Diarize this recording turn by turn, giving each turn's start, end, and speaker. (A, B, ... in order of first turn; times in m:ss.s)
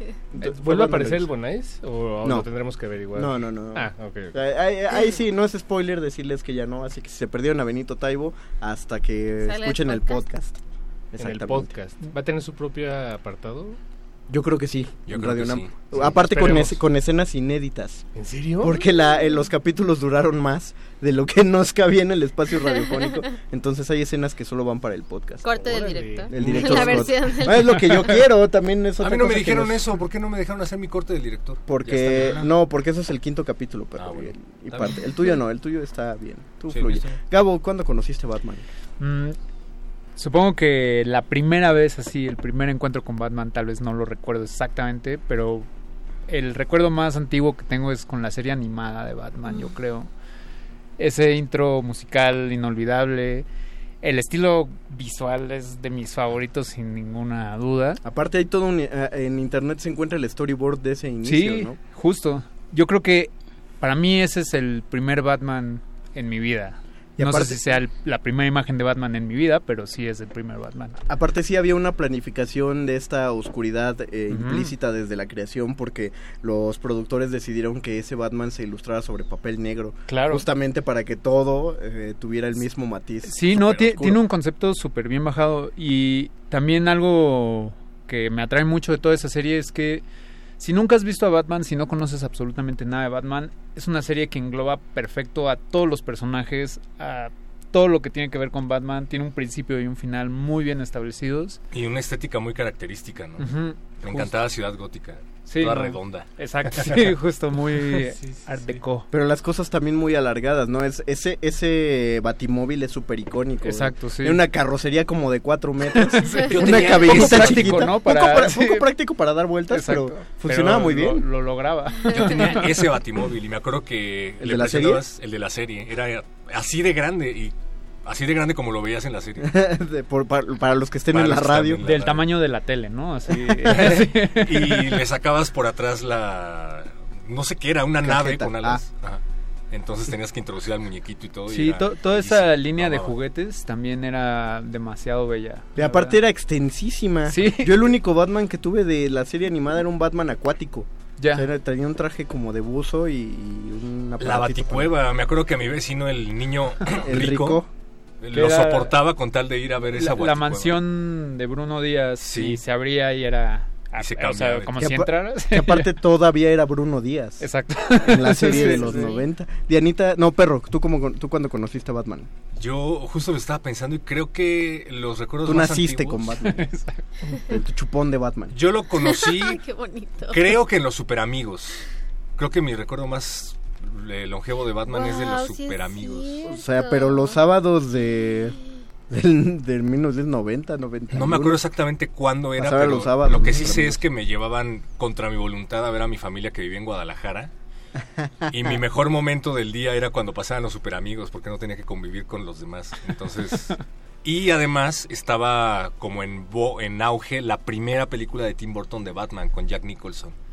0:00.3-0:01.3 A
0:00.4-0:04.4 B
0:03.2-0:10.6 A
0:09.4-0:10.2 C
0:11.1-0:11.7 A
0:11.2-0:13.8 B
0:14.3-0:18.1 A
0:15.1-0:16.2 D
0:16.1-0:16.8 B
0:18.2-0:18.8 B
0:18.6-0:25.5 A
0:22.7-0:23.2 C
0:25.4-0:28.1 C
0:25.5-0:26.7 B
0:26.3-0:29.9 A
0:26.4-0:27.1 D
0:29.0-0:32.5 D
0:31.7-0:38.6 A
0:34.0-0:35.0 D
0:36.7-0:37.2 D
0:39.0-0:39.4 E
0:40.2-0:45.7 E
0:46.3-0:50.1 E
0:51.0-0:53.5 E
0:54.0-0:58.0 E
0:58.0-1:01.8 A
1:01.2-1:11.0 E
1:07.2-1:07.8 A
1:11.1-1:24.2 A
1:14.3-1:14.7 E
1:20.1-1:20.4 E
1:23.2-1:30.0 E
1:30.6-1:41.6 E
1:41.7-1:47.2 D
1:43.4-1:44.4 E
1:45.5-1:49.1 E
1:48.0-1:48.8 B
1:49.1-2:01.2 A
1:53.6-1:54.4 E
1:55.9-1:58.9 E
1:56.2-1:58.0 D
1:59.7-2:02.9 E
2:02.1-2:09.5 D
2:04.4-2:05.0 A
2:09.4-2:11.8 A
2:11.1-2:12.3 D
2:11.8-2:15.0 E
2:13.7-2:23.2 D
2:18.0-2:18.8 A
2:21.5-2:26.2 E
2:25.8-2:34.9 A
2:27.3-2:27.9 E
2:31.2-2:31.5 E
2:34.2-2:37.6 D
2:37.0-2:37.7 A
2:38.2-2:40.8 D
2:38.3-2:39.0 E
2:39.9-2:45.9 E
2:42.2-2:42.6 D
2:44.0-2:44.8 D
2:44.8-2:52.3 A
2:47.4-2:49.2 E
2:52.5-2:56.3 D
2:55.4-2:56.6 A
2:56.4-2:57.0 E
2:57.5-2:58.6 A
2:58.5-2:59.6 D
2:59.0-3:00.5 C
3:00.3-3:01.8 D
3:02.4-3:06.4 D
3:04.9-3:07.4 C
3:06.5-3:08.6 A
3:08.1-3:08.7 C
3:09.1-3:11.6 A
3:11.1-3:17.5 D
3:12.6-3:14.0 A
3:18.0-3:18.8 A
3:18.5-3:30.4 D